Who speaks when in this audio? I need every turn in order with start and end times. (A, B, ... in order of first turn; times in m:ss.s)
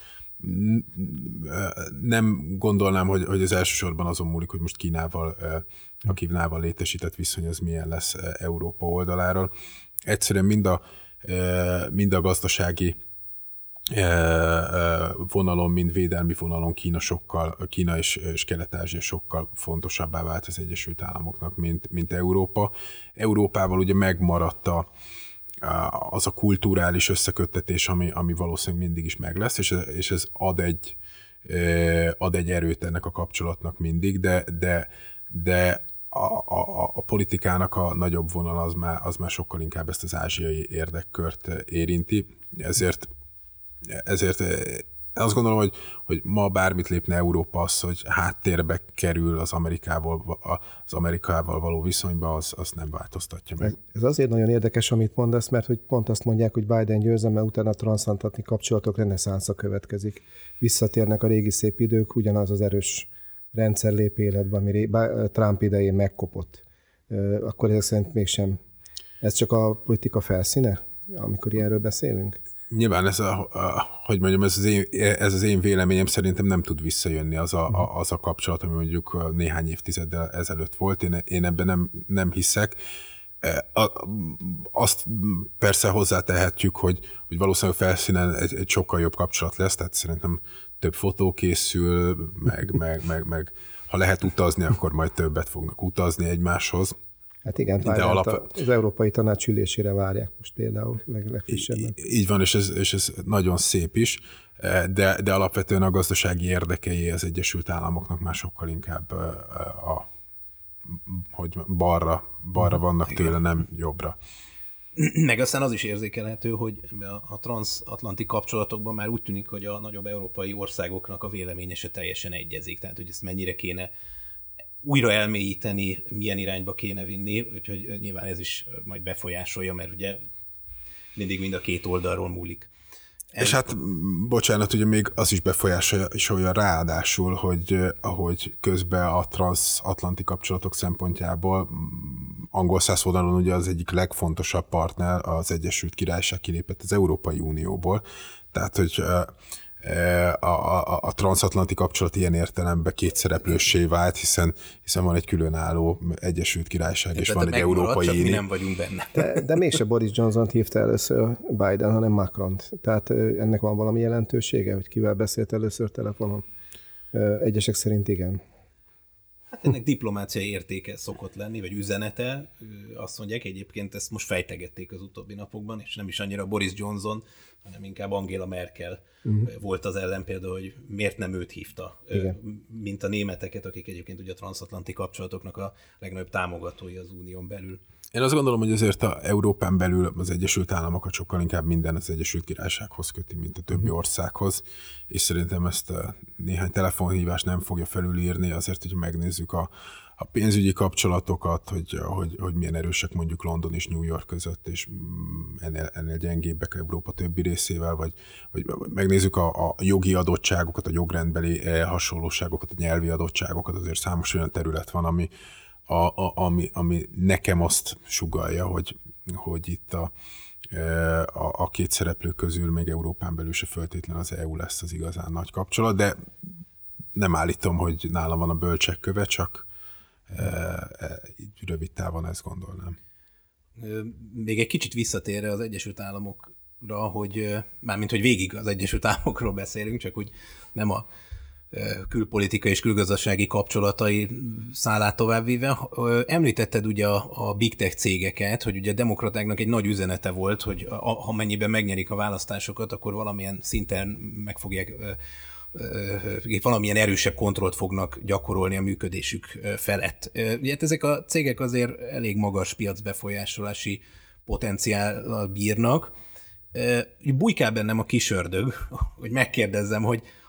0:00.4-0:09.5 A
0:10.1-0:13.0 A
0:13.9-0:24.9 A
0:25.6-0:43.1 A
0:43.9-0:53.7 A
0:53.6-1:08.6 B
1:09.2-1:12.4 B
1:12.7-1:22.8 A
1:23.4-1:37.0 A
1:37.4-1:42.0 B
1:37.8-1:38.4 A
1:41.5-1:50.1 A
1:50.9-1:54.2 A
1:55.0-2:03.9 C
2:04.8-2:10.2 C
2:11.2-2:12.7 C
2:13.3-2:13.6 C
2:13.4-2:38.4 A
2:37.2-2:39.4 C
2:39.2-2:46.4 B
2:47.1-2:48.4 B
2:49.5-3:07.8 C
3:08.1-3:35.3 A
3:35.9-3:40.1 A
3:40.7-3:46.5 A
3:47.2-3:49.7 A
3:50.3-3:53.0 A
3:53.8-4:01.1 C
4:01.7-4:15.2 C
4:15.7-4:26.1 C
4:26.7-4:30.2 C